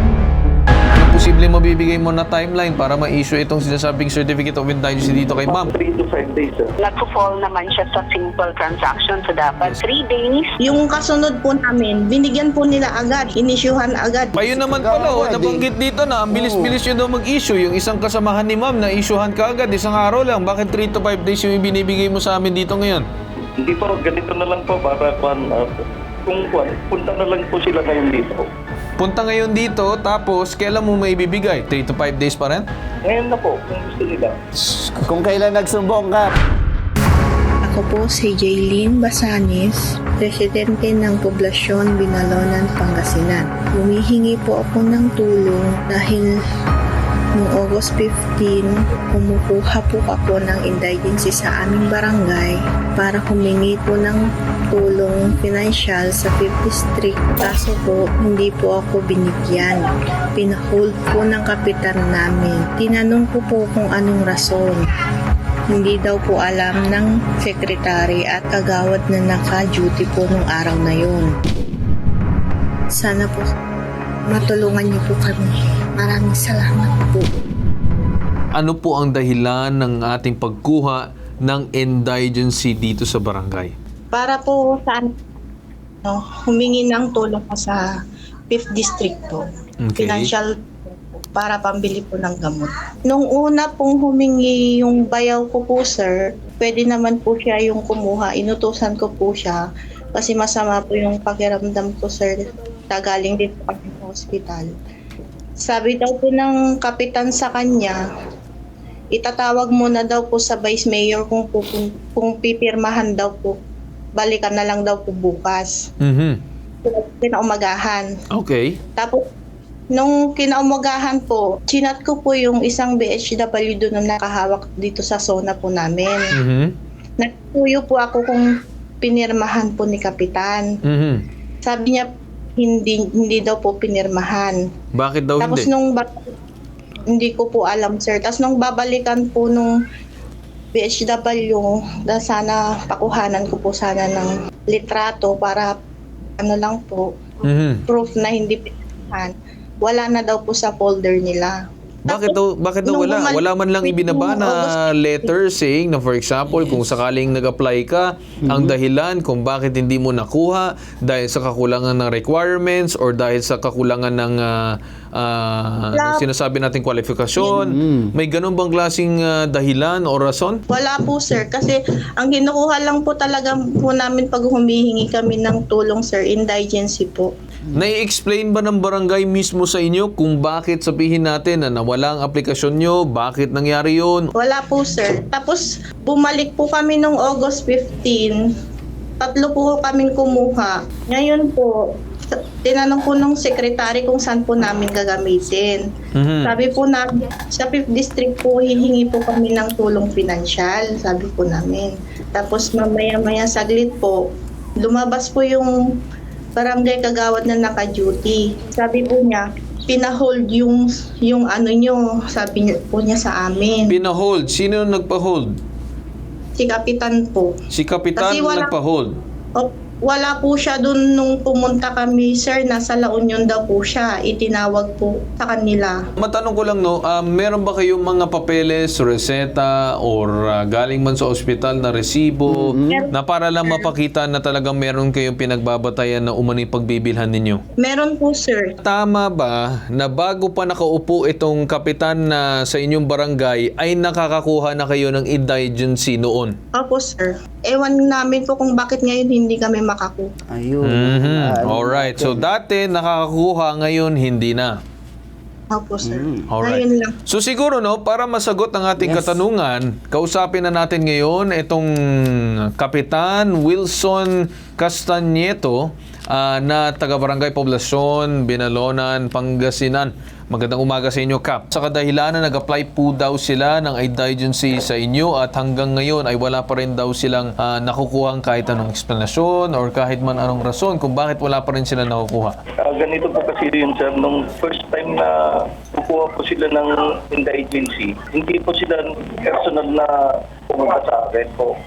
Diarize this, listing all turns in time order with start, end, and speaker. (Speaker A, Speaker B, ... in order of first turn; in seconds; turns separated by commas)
Speaker A: 0.9-5.7, Speaker B: 5.2-6.7, Speaker C: 6.8-10.6, Speaker D: 10.6-14.4, Speaker A: 14.4-23.1, Speaker E: 14.4-15.7, Speaker E: 16.3-16.8, Speaker B: 23.6-28.5, Speaker A: 29.0-32.7, Speaker B: 33.0-34.4, Speaker E: 35.0-36.3, Speaker D: 37.6-46.3, Speaker D: 47.4-64.9, Speaker D: 65.7-71.3, Speaker D: 72.9-73.5, Speaker D: 74.3-77.3, Speaker A: 78.5-83.7, Speaker D: 84.1-85.1, Speaker D: 86.0-87.8, Speaker D: 88.5-89.4, Speaker A: 89.8-90.3, Speaker D: 90.0-99.6, Speaker D: 100.2-104.7, Speaker D: 105.6-108.0, Speaker D: 109.2-113.5, Speaker D: 114.2-115.8, Speaker A: 116.0-116.4, Speaker D: 116.9-118.1, Speaker A: 118.3-118.8, Speaker D: 119.9-126.3, Speaker A: 126.3-126.7, Speaker D: 127.2-128.5, Speaker D: 129.0-130.7, Speaker A: 130.8-131.2, Speaker D: 131.6-132.1, Speaker D: 132.6-134.6, Speaker A: 134.9-135.7, Speaker D: 135.4-136.1, Speaker D: 137.1-139.7, Speaker D: 140.7-145.7, Speaker D: 146.4-147.1, Speaker A: 147.5-147.8, Speaker D: 147.9-155.3, Speaker A: 152.1-170.6, Speaker E: 158.4-158.7, Speaker D: 165.9-166.2, Speaker E: 167.6-168.1, Speaker D: 170.7-177.3, Speaker A: 177.7-184.3, Speaker D: 184.4-188.4, Speaker D: 189.2-191.7, Speaker D: 192.6-195.8, Speaker A: 196.2-196.6, Speaker D: 196.4-204.2, Speaker D: 204.8-205.8, Speaker D: 206.6-213.9, Speaker A: 213.9-215.6, Speaker D: 216.6-217.5, Speaker A: 217.7-219.2, Speaker D: 218.2-218.7, Speaker D: 219.6-226.0, Speaker A: 226.2-237.6, Speaker E: 232.5-233.1, Speaker D: 237.8-238.8, Speaker A: 238.8-246.6, Speaker D: 246.7-250.3, Speaker E: 250.5-252.5, Speaker A: 250.8-254.8, Speaker D: 255.7-257.1, Speaker E: 256.0-256.5, Speaker A: 256.5-282.6, Speaker E: 259.0-259.4, Speaker B: 282.8-290.1, Speaker B: 290.7-291.7